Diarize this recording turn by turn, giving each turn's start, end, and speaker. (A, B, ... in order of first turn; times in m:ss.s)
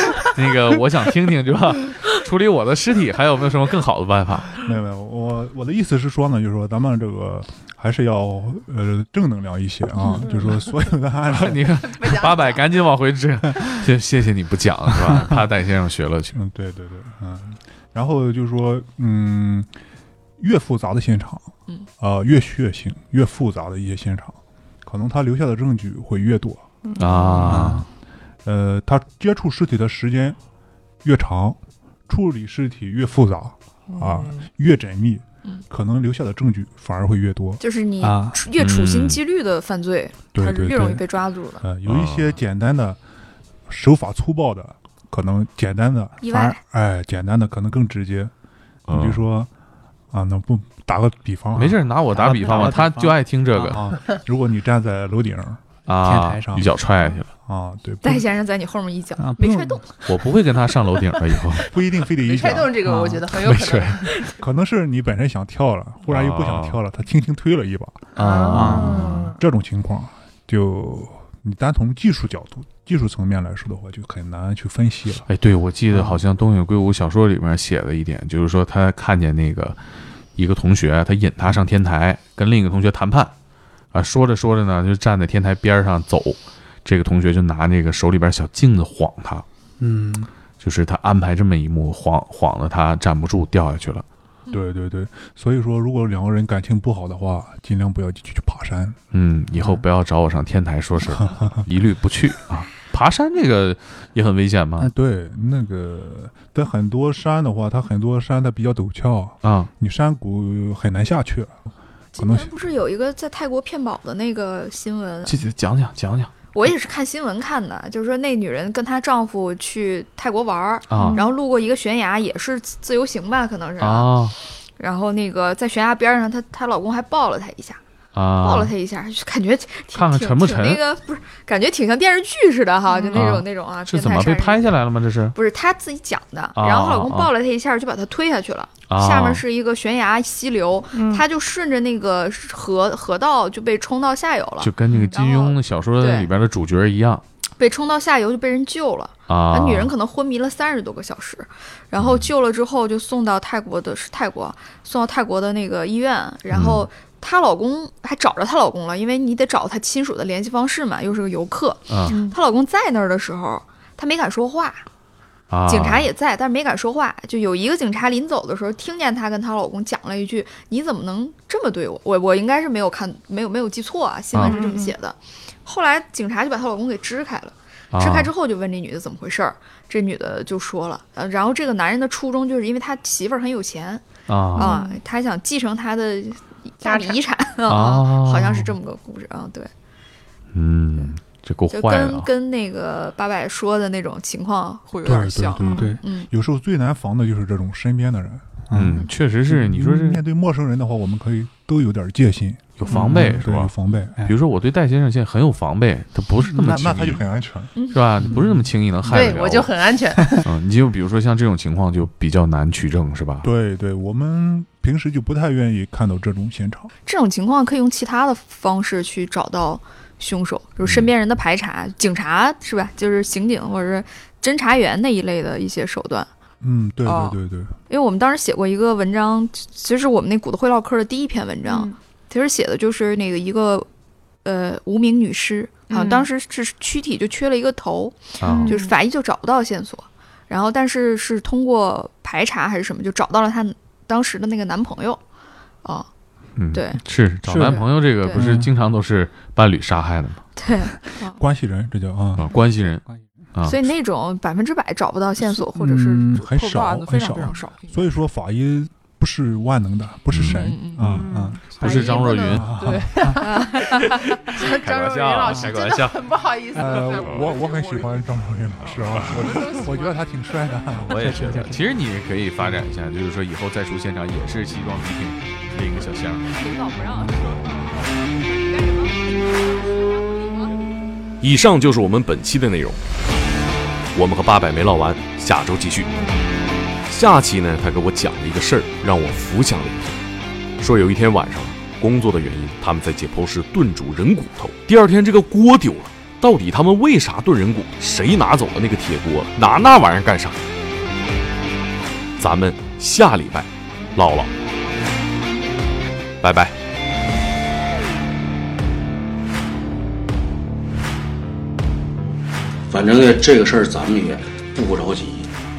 0:00.3-0:04.5 A
0:04.6-0:12.1 B
0:10.0-0:10.6 C
0:11.3-0:16.3 A
0:12.0-0:12.6 C
0:16.3-0:19.7 B
0:20.4-0:26.6 B
0:26.8-0:27.6 C
0:27.0-0:27.9 A
0:27.5-0:27.8 D
0:28.4-0:30.4 B
0:31.0-0:37.6 B
0:33.9-0:34.4 C
0:37.6-0:41.6 E
0:38.0-0:38.4 D
0:38.6-0:39.2 A
0:40.3-0:41.0 B
0:41.6-0:43.0 B
0:41.9-0:42.2 A
0:43.7-0:48.3 B
0:46.2-0:46.6 E
0:48.9-0:49.2 A
0:48.9-0:49.5 B
0:50.1-0:51.9 B
0:51.6-0:53.8 A
0:52.1-0:54.0 D
0:52.4-0:52.9 B
0:53.6-0:56.7 B
0:55.9-0:57.3 A
0:55.9-0:56.7 D
0:57.4-0:58.3 B
0:58.0-1:00.0 E
0:59.2-0:59.8 D
0:59.4-0:59.8 B
1:00.0-1:01.6 A
1:01.6-1:03.1 B
1:02.2-1:04.3 C
1:03.3-1:04.0 A
1:04.3-1:15.3 B
1:06.1-1:06.8 A
1:08.2-1:09.2 A
1:08.2-1:09.4 C
1:08.5-1:09.3 D
1:15.3-1:19.8 A
1:20.4-1:23.3 A
1:23.9-1:29.4 A
1:29.8-1:30.3 D
1:30.6-1:34.0 A
1:34.5-1:39.0 B
1:39.1-1:44.9 A
1:41.1-1:41.6 B
1:44.8-1:51.6 B
1:49.4-1:49.7 A
1:52.1-1:55.4 E
1:52.2-1:52.5 B
1:55.3-1:56.3 A
1:56.5-2:07.8 E
2:00.9-2:01.2 A
2:01.0-2:01.3 C
2:03.8-2:04.4 A
2:08.2-2:08.7 A
2:08.4-2:14.8 E
2:09.9-2:10.8 A
2:12.9-2:13.3 C
2:13.1-2:15.3 A
2:15.3-2:26.3 E
2:16.6-2:17.3 A
2:18.9-2:19.4 A
2:20.9-2:21.2 C
2:24.6-2:27.2 A
2:27.6-2:44.8 E
2:29.3-2:29.9 A
2:32.0-2:32.3 A
2:36.5-2:36.9 A
2:41.9-2:42.2 A
2:42.1-2:42.4 C
2:45.5-2:46.1 A
2:45.7-3:04.0 E
2:54.3-2:54.6 A
2:54.4-2:54.9 C
2:57.9-2:58.3 A
3:04.3-3:04.8 A
3:04.6-3:09.7 E
3:04.6-3:05.0 C
3:06.8-3:07.2 C
3:07.7-3:08.7 A
3:10.5-3:12.3 A
3:11.7-3:16.3 E
3:15.0-3:18.9 B
3:15.7-3:16.0 D
3:18.7-3:19.0 D
3:18.7-3:20.2 A
3:19.5-3:24.3 B
3:22.8-3:27.2 A
3:22.9-3:23.4 D
3:26.4-3:27.7 B
3:27.8-3:28.0 E
3:27.9-3:29.7 A
3:28.2-3:28.7 D
3:29.1-3:30.5 C
3:30.4-3:33.5 A
3:33.4-3:36.9 B
3:37.1-3:46.3 E
3:40.8-3:41.1 A
3:46.6-3:47.8 B
3:47.0-3:47.4 E
3:47.9-3:53.9 E
3:51.7-3:52.0 C
3:54.4-4:05.2 E
3:55.9-3:56.3 C
3:58.4-3:58.8 A
3:58.4-3:59.0 C
4:06.6-4:10.4 A
4:06.7-4:07.0 E
4:07.4-4:08.7 D
4:08.2-4:08.5 E
4:10.6-4:11.4 E
4:11.4-4:12.5 B
4:12.4-4:13.8 A
4:13.7-4:18.1 E
4:15.8-4:16.5 D
4:16.3-4:23.6 B
4:20.3-4:21.3 A
4:20.5-4:21.1 E
4:21.2-4:28.0 C
4:21.8-4:22.7 A
4:23.3-4:24.7 E
4:24.6-4:26.2 A
4:26.8-4:31.8 B
4:26.8-4:28.0 E
4:29.3-4:30.0 C
4:31.1-4:36.5 A
4:31.4-4:31.6 D
4:36.5-4:40.8 E
4:41.4-4:43.0 F
4:44.1-4:46.1 F
4:47.1-4:50.2 F
4:50.8-5:00.6 F
5:02.4-5:04.5 F
5:06.4-5:06.7 F
5:12.9-5:15.5 G